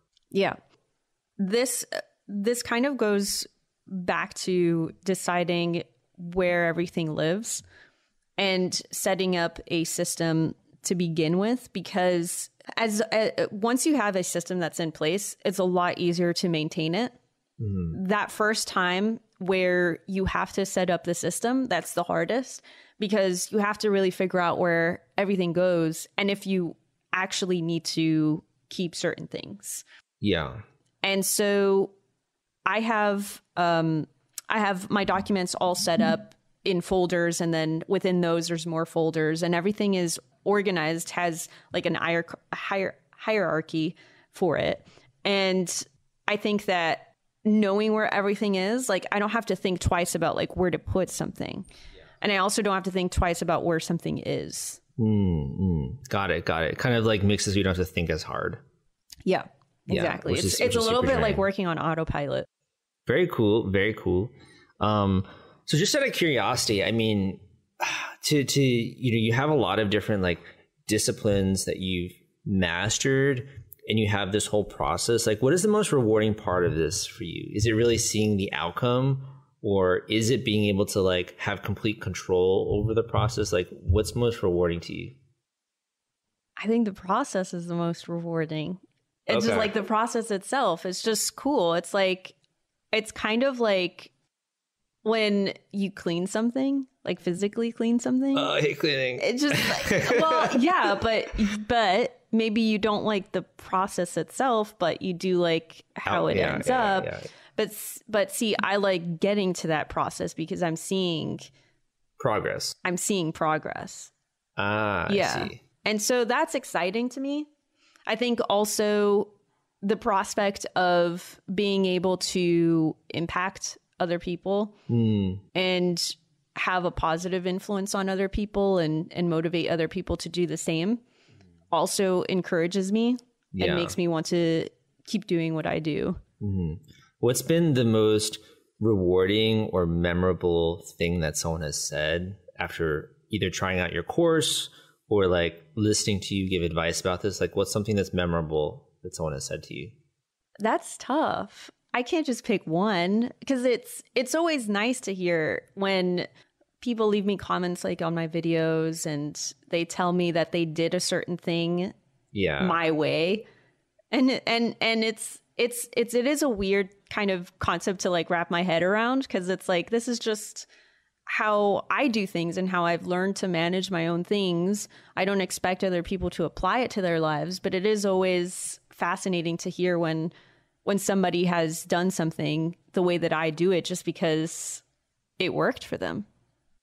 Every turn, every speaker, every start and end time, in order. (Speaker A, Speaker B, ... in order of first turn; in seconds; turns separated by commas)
Speaker A: 1.4-7.6, Speaker A: 8.4-17.1, Speaker B: 17.6-17.9, Speaker A: 17.9-29.8, Speaker B: 30.2-30.6, Speaker A: 31.0-31.9, Speaker A: 32.7-51.7, Speaker A: 52.2-54.8, Speaker B: 55.0-58.6, Speaker A: 59.2-62.5, Speaker B: 59.9-61.4, Speaker B: 63.1-85.2, Speaker A: 86.6-92.3, Speaker B: 89.3-89.7, Speaker A: 92.9-94.1, Speaker A: 95.0-98.5, Speaker B: 98.3-101.0, Speaker A: 99.2-111.5, Speaker B: 106.0-107.3, Speaker B: 112.2-112.7, Speaker A: 112.8-114.1, Speaker B: 114.6-115.6, Speaker A: 115.1-117.5, Speaker A: 118.1-119.3, Speaker A: 119.8-124.7, Speaker B: 124.9-125.4, Speaker A: 125.5-131.0, Speaker A: 131.7-136.2, Speaker B: 133.5-133.9, Speaker B: 136.4-149.9, Speaker A: 150.6-156.3, Speaker A: 156.8-161.9, Speaker B: 162.3-162.8, Speaker A: 162.6-163.4, Speaker A: 164.1-170.7, Speaker A: 171.3-180.3, Speaker A: 180.8-184.8, Speaker A: 185.4-186.2